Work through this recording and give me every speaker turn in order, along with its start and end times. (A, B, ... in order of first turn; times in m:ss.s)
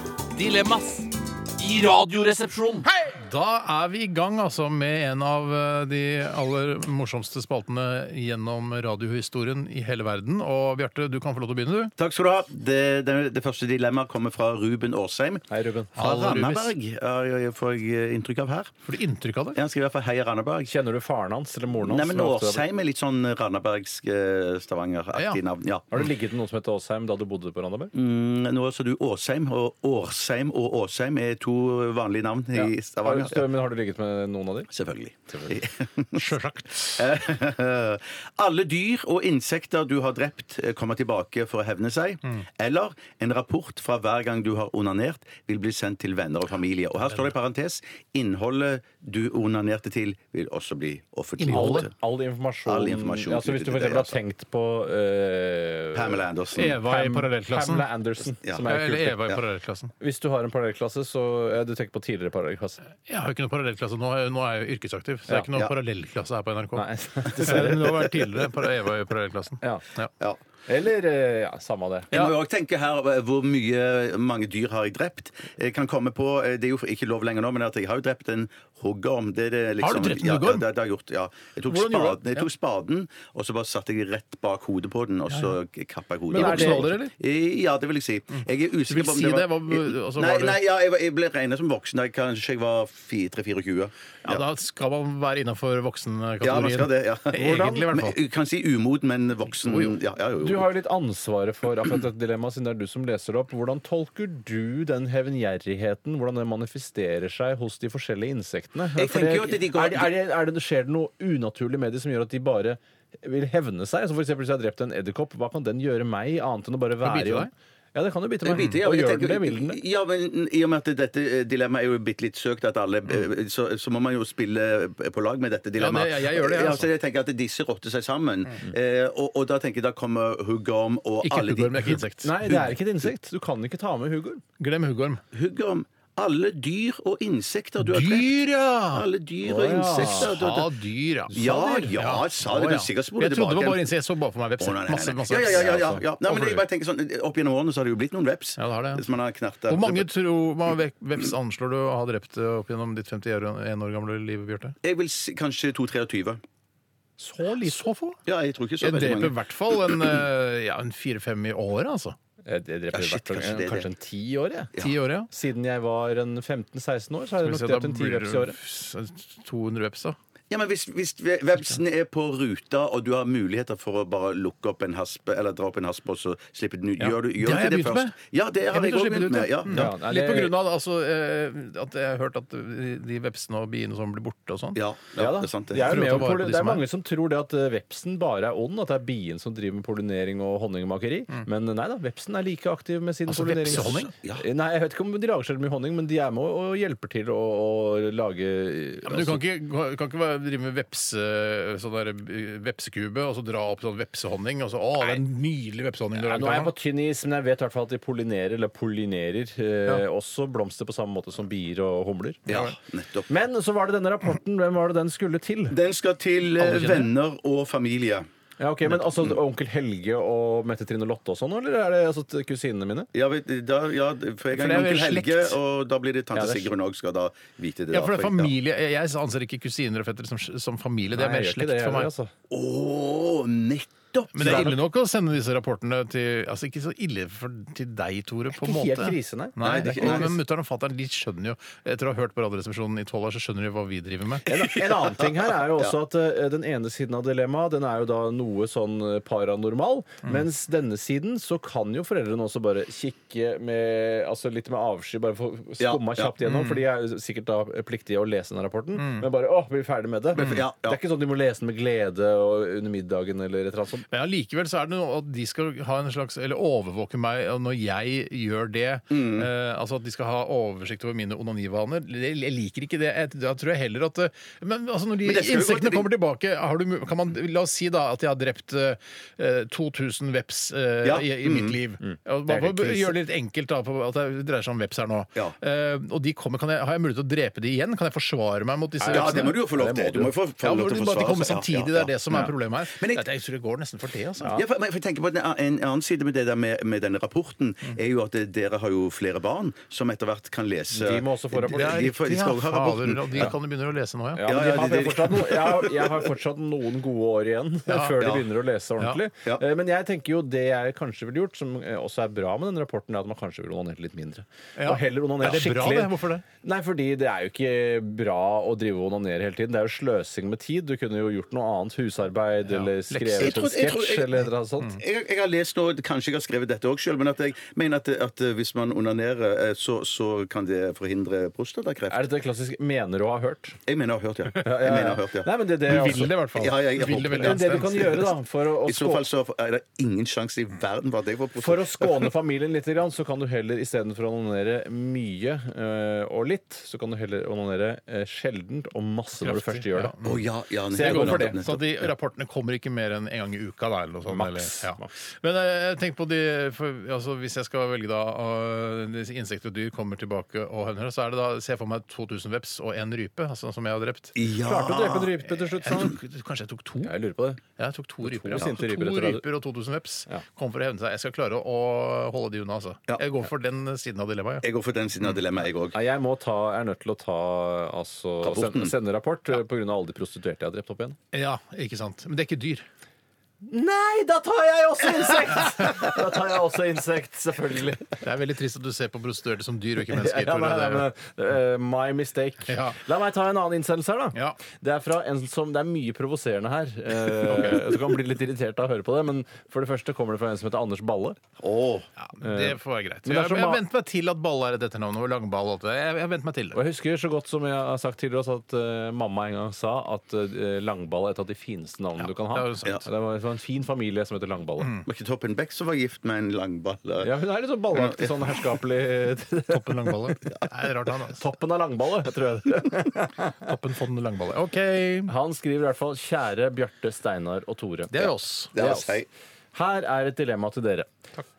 0:00.3-0:02.9 A
0:03.1-0:11.9 B
0:12.0-0:15.4 C
0:15.5-0:15.9 A
0:16.0-0:16.7 B
0:16.0-0:18.7 C
0:18.8-0:19.6 B
0:19.5-0:20.7 C
0:20.6-0:22.6 A
0:21.8-0:25.9 C
0:25.1-0:25.4 B
0:25.9-0:27.9 A
0:27.9-0:33.5 C
0:32.5-0:34.7 A
0:34.7-0:51.9 C
0:35.3-0:35.6 A
0:36.1-0:37.1 B
0:51.4-0:51.9 B
0:51.5-0:59.2 A
0:52.6-0:54.2 C
0:55.9-0:56.8 C
0:56.5-0:57.9 B
0:58.7-0:59.9 B
1:00.0-1:02.8 A
1:03.0-1:10.1 B
1:06.7-1:08.0 A
1:10.7-1:12.1 A
1:12.1-1:34.4 C
1:19.8-1:20.7 B
1:21.7-1:22.5 B
1:26.3-1:27.1 B
1:26.3-1:26.9 A
1:28.9-1:30.6 B
1:34.2-1:38.2 B
1:36.4-1:40.7 C
1:37.4-1:37.7 A
1:39.6-1:40.0 B
1:40.4-1:59.8 A
1:49.0-1:50.1 C
1:57.0-1:57.5 B
1:58.4-2:13.1 C
1:58.6-1:58.8 B
2:05.8-2:06.9 B
2:11.2-2:12.4 B
2:12.2-2:14.4 A
2:14.6-2:15.2 B
2:15.3-2:20.7 C
2:17.8-2:19.0 B
2:19.4-2:20.3 A
2:19.9-2:26.6 B
2:21.3-2:21.9 A
2:21.3-2:23.9 C
2:24.6-2:30.1 C
2:28.6-2:29.0 B
2:29.7-2:34.7 B
2:34.8-2:36.4 C
2:37.2-2:38.2 B
2:38.2-2:39.4 C
2:38.8-2:42.2 B
2:42.4-2:44.7 A
2:42.9-2:43.9 C
2:44.8-2:45.3 B
2:45.3-2:48.6 A
2:47.4-2:50.2 B
2:50.5-2:59.9 C
2:57.0-2:58.2 B
2:58.7-3:04.8 B
2:59.7-3:00.5 A
3:04.7-3:05.9 C
3:05.2-3:19.4 A
3:05.8-3:06.8 B
3:13.3-3:14.1 B
3:13.7-3:14.4 C
3:19.0-3:26.7 B
3:26.2-3:32.4 A
3:32.5-3:32.8 B
3:32.5-3:33.3 C
3:33.3-3:35.8 A
3:35.7-3:38.3 C
3:36.6-3:37.1 B
3:38.6-3:43.1 A
3:43.1-3:48.5 C
3:44.5-3:45.6 B
3:46.3-3:46.7 A
3:47.9-3:52.1 B
3:51.1-3:52.3 A
3:52.5-3:54.8 C
3:54.3-4:04.5 B
3:58.5-4:00.3 A
3:59.6-4:00.3 C
4:04.4-4:24.0 A
4:04.5-4:05.9 C
4:15.8-4:16.3 C
4:16.4-4:16.8 B
4:19.0-4:19.3 B
4:20.3-4:21.0 C
4:20.4-4:20.6 B
4:24.1-4:49.6 B
4:29.1-4:29.5 C
4:35.2-4:36.1 C
4:41.0-4:41.8 C
4:42.0-4:43.2 A
4:49.0-4:50.3 A
4:49.1-4:53.2 C
4:50.6-4:54.5 B
4:54.4-4:54.6 A
4:54.5-5:03.5 C
5:00.9-5:01.9 A
5:01.7-5:04.5 B
5:04.3-5:16.1 A
5:04.4-5:06.3 C
5:07.9-5:08.2 B
5:08.2-5:08.5 C
5:14.8-5:16.4 B
5:16.6-5:25.0 A
5:22.7-5:23.6 B
5:23.4-5:32.3 C
5:32.1-5:33.8 A
5:33.9-5:38.2 C
5:34.6-5:36.6 A
5:35.8-5:38.3 B
5:37.3-5:39.2 A
5:38.8-5:42.3 C
5:41.6-5:50.1 A
5:49.4-5:50.5 B
5:50.2-5:52.0 C
5:50.9-5:51.6 A
5:51.0-6:04.3 B
5:54.3-5:55.1 A
6:04.4-6:05.4 C
6:04.6-6:06.2 A
6:05.7-6:07.1 B
6:07.0-6:07.6 A
6:07.8-6:14.6 B
6:08.2-6:09.4 A
6:14.6-6:16.0 C
6:15.9-6:21.2 A
6:18.4-6:18.9 C
6:21.3-6:22.8 B
6:23.6-6:28.2 A
6:28.2-6:31.1 B
6:30.1-6:41.4 A
6:32.7-6:33.0 B
6:34.3-6:34.6 B
6:37.4-6:38.0 B
6:41.6-6:42.1 C
6:42.2-6:46.8 B
6:42.4-6:43.8 A
6:46.7-6:54.9 A
6:52.2-6:53.0 B
6:54.8-6:55.0 B
6:55.0-6:57.3 C
6:57.2-7:00.4 A
6:57.9-6:58.7 C
6:59.7-7:01.4 B
7:01.3-7:03.6 A
7:03.6-7:05.3 B
7:05.3-7:11.1 A
7:08.1-7:08.8 B
7:08.7-7:09.3 C